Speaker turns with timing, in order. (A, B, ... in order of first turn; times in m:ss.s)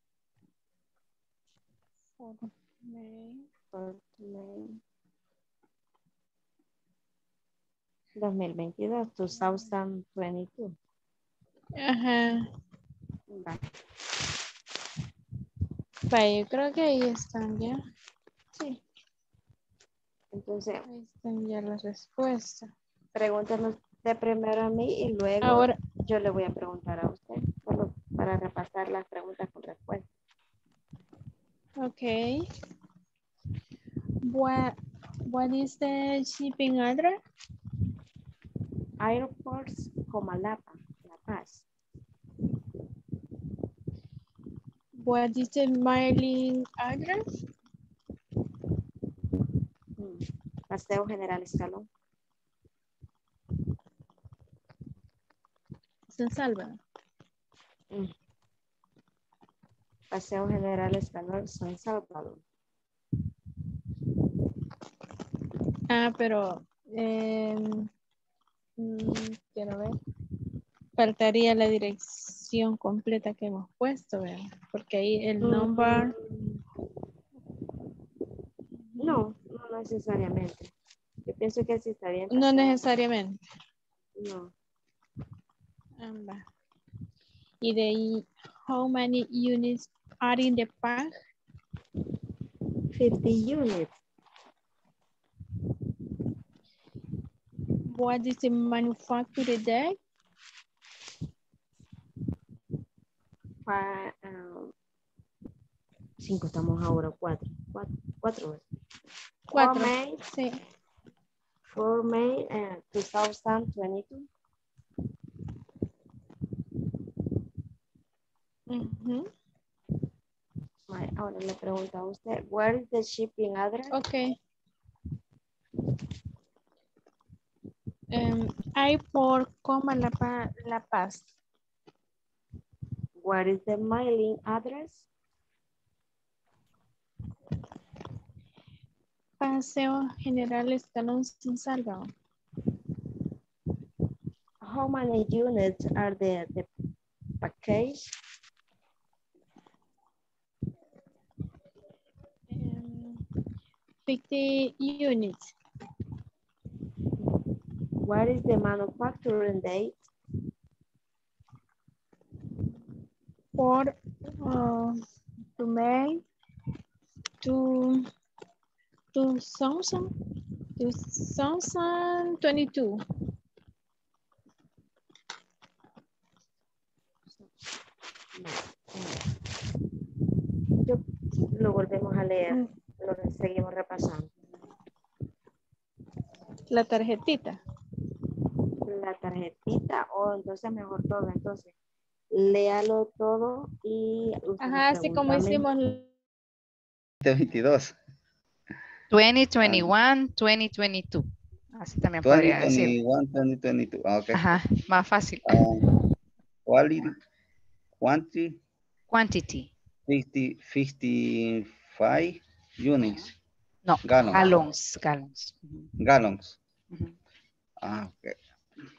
0:02.2-0:03.4 A
0:03.7-0:04.8 B
0:08.2-0:10.8 B
0:11.8-0:12.5 A
0:13.3-0:13.6 B
0:16.1-0:17.8 A
0:18.6-0:18.8 A
0:20.3-0:20.8 B
0:20.9-0:22.7 A
0:23.2-0:30.0 B
0:25.4-0:25.8 A
0:31.8-0:32.4 A
0:34.3-0:34.8 A
0:35.3-0:37.2 A
0:39.0-0:41.6 B
0:45.0-0:47.2 A
0:50.0-0:51.9 B
0:56.1-0:56.8 A
1:00.1-1:02.4 B
1:05.9-1:07.9 A
1:08.8-1:10.0 A
1:11.0-1:16.1 A
1:15.4-1:16.6 B
1:19.0-1:20.7 B
1:21.3-1:22.8 B
1:22.3-1:23.4 A
1:24.2-1:24.5 B
1:26.0-1:26.4 A
1:27.6-1:31.1 A
1:32.9-1:33.9 B
1:37.9-1:40.0 A
1:43.7-1:44.7 B
1:46.2-1:48.6 B
1:49.5-1:50.6 A
1:49.6-1:50.2 B
1:51.7-1:54.3 B
1:58.7-1:59.3 A
2:00.9-2:04.0 B
2:03.9-2:04.4 A
2:08.1-2:11.3 A
2:13.2-2:15.0 B
2:19.4-2:22.1 A
2:24.6-2:26.7 B
2:27.4-2:28.1 B
2:32.5-2:33.2 A
2:34.1-2:35.5 A
2:38.0-2:40.0 B
2:43.6-2:45.0 A
2:47.4-2:48.1 A
2:49.1-2:50.1 A
2:50.8-2:53.0 A
2:58.4-2:59.3 B
3:00.8-3:04.3 B
3:06.7-3:07.6 A
3:08.9-3:11.7 B
3:12.3-3:15.7 B
3:14.6-3:16.1 A
3:17.2-3:18.0 C
3:19.1-3:21.3 D
3:19.6-3:19.9 C
3:21.8-3:23.0 D
3:22.2-3:24.5 C
3:24.3-3:25.6 D
3:25.5-3:25.8 C
3:26.7-3:27.1 C
3:28.0-3:28.6 C
3:29.1-3:29.7 D
3:30.1-3:33.3 C
3:33.9-3:35.9 D
3:34.0-3:34.6 C
3:36.0-3:36.6 C
3:37.8-3:38.4 C